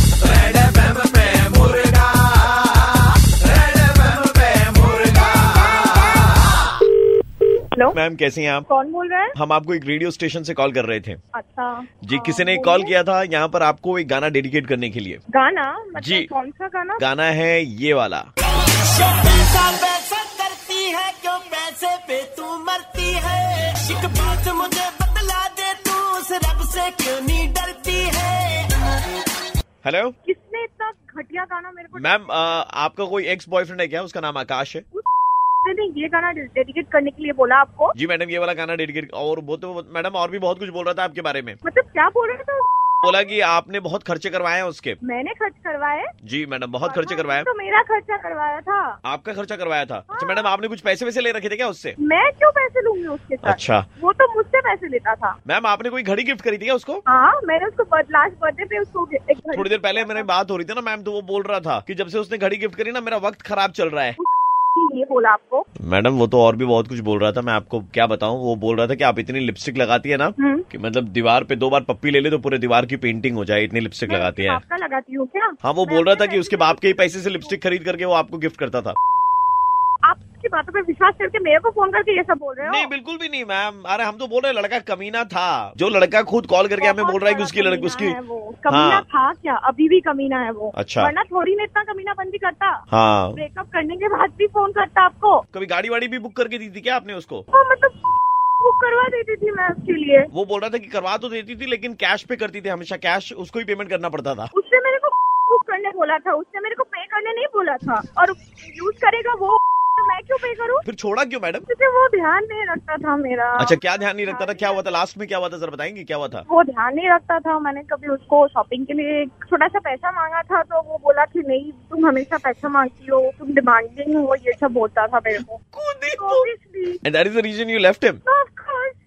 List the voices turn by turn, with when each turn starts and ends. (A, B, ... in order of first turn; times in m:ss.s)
0:00.2-0:02.4 A
0:03.4-0:05.7 A
0:07.9-0:08.6 A
0:08.7-0:09.3 B
0:09.3-0:11.2 A
0:11.3-0:12.9 B
0:12.0-0:15.2 A
0:15.3-0:17.0 B
0:16.0-0:16.3 A
0:17.0-0:18.3 A
0:18.5-0:28.7 C
0:29.8-0:30.1 A
0:30.2-0:32.5 B
0:31.9-0:34.8 A
0:35.6-0:37.9 B
0:38.0-0:41.6 A
0:41.6-0:42.6 B
0:43.0-0:45.0 A
0:45.0-0:46.1 B
0:46.2-0:47.5 A
0:46.8-0:49.0 B
0:49.0-0:52.0 A
0:50.1-0:50.5 B
0:52.0-0:55.4 B
0:53.4-0:53.8 A
0:55.4-0:57.0 A
0:57.1-1:00.3 B
0:59.5-1:04.2 A
1:04.2-1:05.6 B
1:05.8-1:14.6 A
1:10.4-1:10.6 B
1:14.1-1:17.5 B
1:15.6-1:19.0 A
1:20.0-1:22.9 B
1:22.6-1:28.2 A
1:26.8-1:32.8 B
1:28.7-1:29.0 A
1:30.7-1:31.1 A
1:32.9-1:33.4 A
1:33.3-1:35.4 B
1:35.5-1:37.4 A
1:37.5-1:38.0 B
1:38.6-1:40.3 B
1:40.3-1:44.5 A
1:44.5-1:50.8 B
1:50.8-1:51.6 A
1:51.7-1:54.8 B
1:53.6-1:56.4 A
1:56.5-2:05.6 B
2:05.7-2:06.5 A
2:06.2-2:07.0 B
2:07.0-2:08.2 A
2:08.2-2:09.0 B